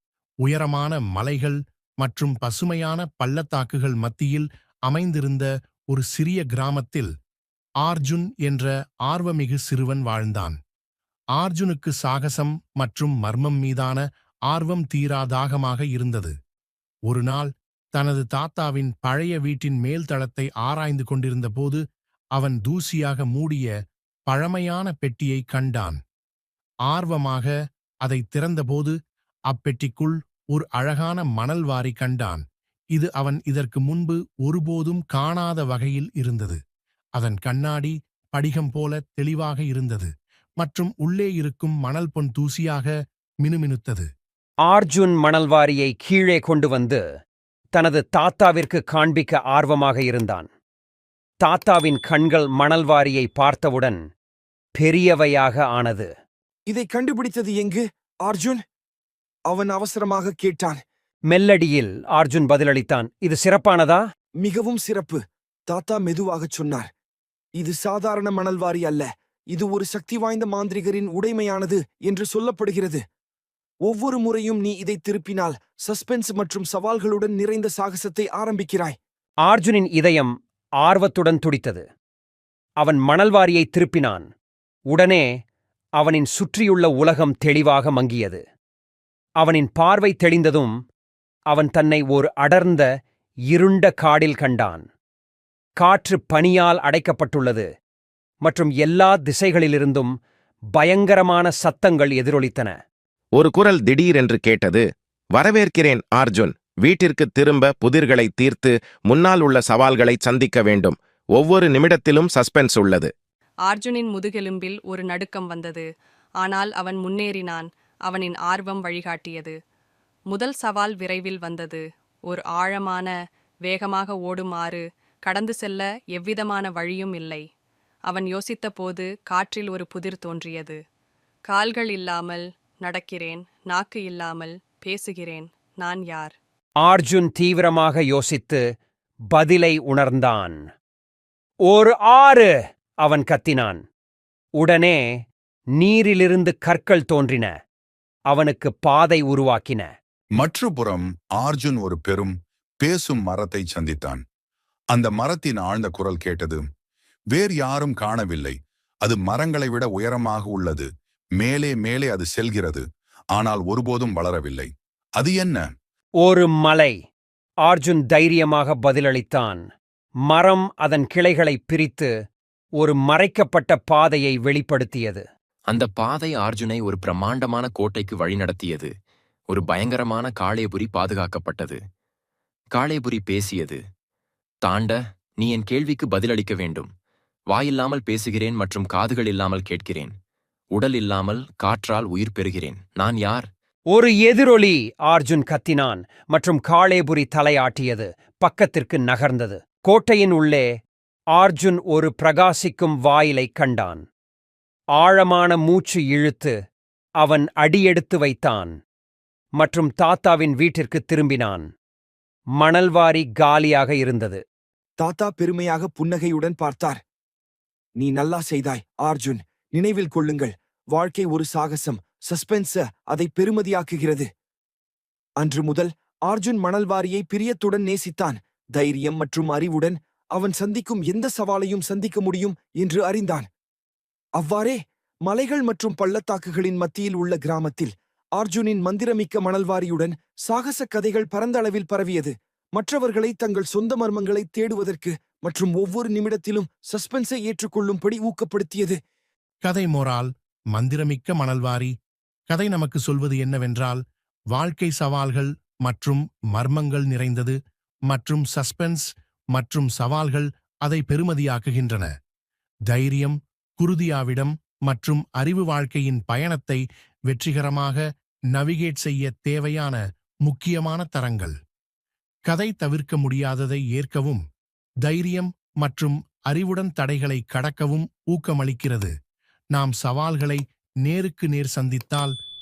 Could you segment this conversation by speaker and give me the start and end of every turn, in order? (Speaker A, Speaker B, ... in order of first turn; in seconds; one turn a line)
Speaker A: 0.4-7.1
Speaker A: 7.8-10.6
Speaker A: 11.4-16.3
Speaker A: 17.1-21.8
Speaker A: 22.4-23.7
Speaker A: 24.3-26.0
Speaker A: 26.9-27.5
Speaker A: 28.0-28.9
Speaker A: 29.5-32.4
Speaker A: 33.0-36.6
Speaker A: 37.2-40.1
Speaker A: 40.6-42.9
Speaker A: 43.4-44.1
Speaker B: 44.7-47.0
Speaker B: 47.8-50.5
Speaker B: 51.4-54.0
Speaker B: 54.8-56.1
Speaker C: 56.7-58.6
Speaker C: 59.5-60.8
Speaker B: 61.3-64.0
Speaker C: 64.4-66.9
Speaker C: 67.6-73.0
Speaker C: 73.8-79.0
Speaker B: 79.5-81.8
Speaker B: 82.8-84.3
Speaker B: 84.9-85.3
Speaker B: 86.0-88.4
Speaker B: 89.4-90.8
Speaker B: 91.5-92.9
Speaker B: 93.5-94.8
Speaker B: 95.8-97.7
Speaker B: 98.4-100.1
Speaker B: 100.8-102.8
Speaker D: 103.4-113.1
Speaker E: 113.7-115.9
Speaker E: 116.4-119.5
Speaker E: 120.3-123.1
Speaker E: 123.7-127.4
Speaker E: 128.1-130.8
Speaker E: 131.5-136.3
Speaker B: 136.8-138.6
Speaker B: 139.3-140.6
Speaker B: 141.7-142.5
Speaker B: 143.0-143.8
Speaker B: 144.6-145.1
Speaker B: 145.8-147.5
Speaker B: 148.3-149.9
Speaker F: 150.4-154.2
Speaker F: 154.9-156.6
Speaker F: 157.3-160.9
Speaker F: 161.4-165.7
Speaker B: 166.2-167.0
Speaker B: 167.6-169.7
Speaker B: 170.3-172.1
Speaker B: 172.8-175.2
Speaker G: 175.7-178.9
Speaker G: 179.5-181.8
Speaker G: 182.7-183.8
Speaker G: 184.6-186.9
Speaker G: 187.5-190.1
Speaker G: 190.7-193.5
Speaker B: 193.9-200.7
Speaker B: 201.3-204.0
Speaker B: 204.9-206.6
Speaker B: 207.2-208.7
Speaker B: 209.6-211.7
Speaker B: 212.6-214.4
Speaker C: 215.0-217.0
Speaker C: 218.0-224.3
Speaker C: 225.4-233.5
Speaker C: 234.4-249.0
Speaker A: 249.6-251.9
Speaker A: 252.5-254.0
Speaker A: 254.5-257.6
Speaker A: 258.1-262.1
Speaker A: 262.9-268.0
Speaker A: 268.5-271.5
Speaker A: 272.5-274.4
Speaker A: 275.1-279.1
Speaker A: 279.7-282.3